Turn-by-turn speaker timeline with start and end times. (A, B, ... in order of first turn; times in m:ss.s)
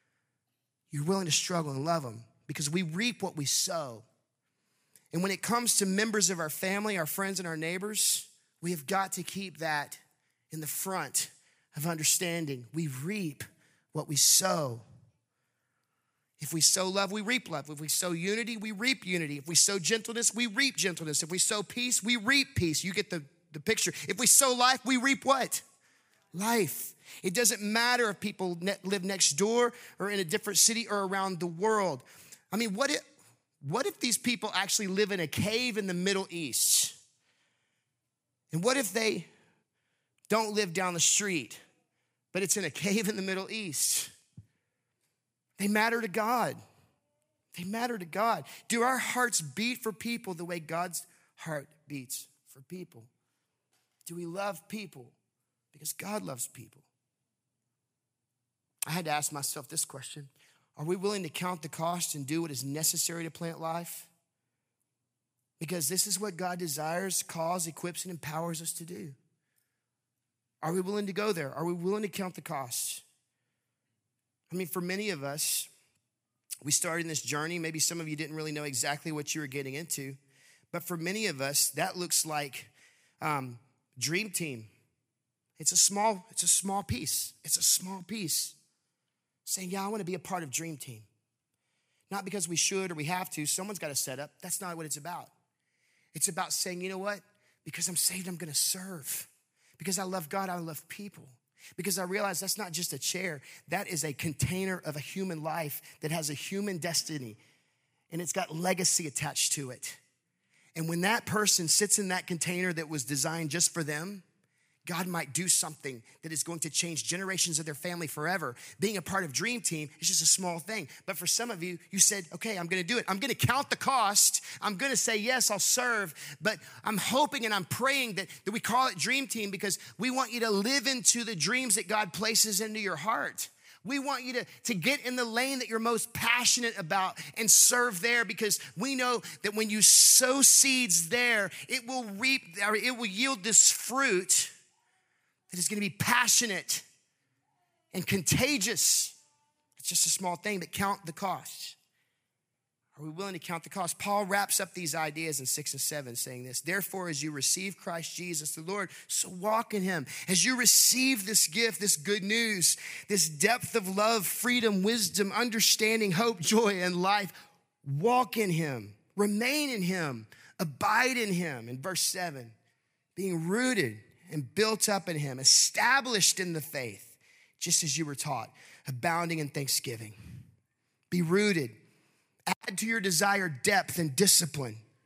0:00.9-0:04.0 A
0:05.1-0:14.8 A
0:16.4-0:25.6 A
0:26.3-0:33.0 A
0:33.6-0:37.0 A
0:38.5-0:39.3 A
0:40.3-0:41.6 A
0:42.3-0:44.1 A
0:45.6-0:46.6 A
0:47.5-0:53.1 A
0:54.0-0:55.1 A
0:55.7-0:56.8 A
0:58.9-1:04.1 A
1:05.6-1:09.2 A
1:10.6-1:13.0 A
1:14.5-1:15.7 A
1:16.6-1:20.2 A
1:20.7-1:24.7 A
1:25.6-1:28.6 A
1:29.4-1:31.1 A
1:32.1-1:35.3 A
1:36.1-1:47.4 A
1:48.1-1:50.0 A
1:50.7-1:54.2 A
1:54.8-2:24.5 A
2:25.5-2:26.8 A
2:27.9-2:29.2 A
2:29.8-2:31.8 A
2:33.0-2:52.5 A
2:53.2-3:00.1 A
3:01.1-3:01.8 A
3:02.5-3:04.8 A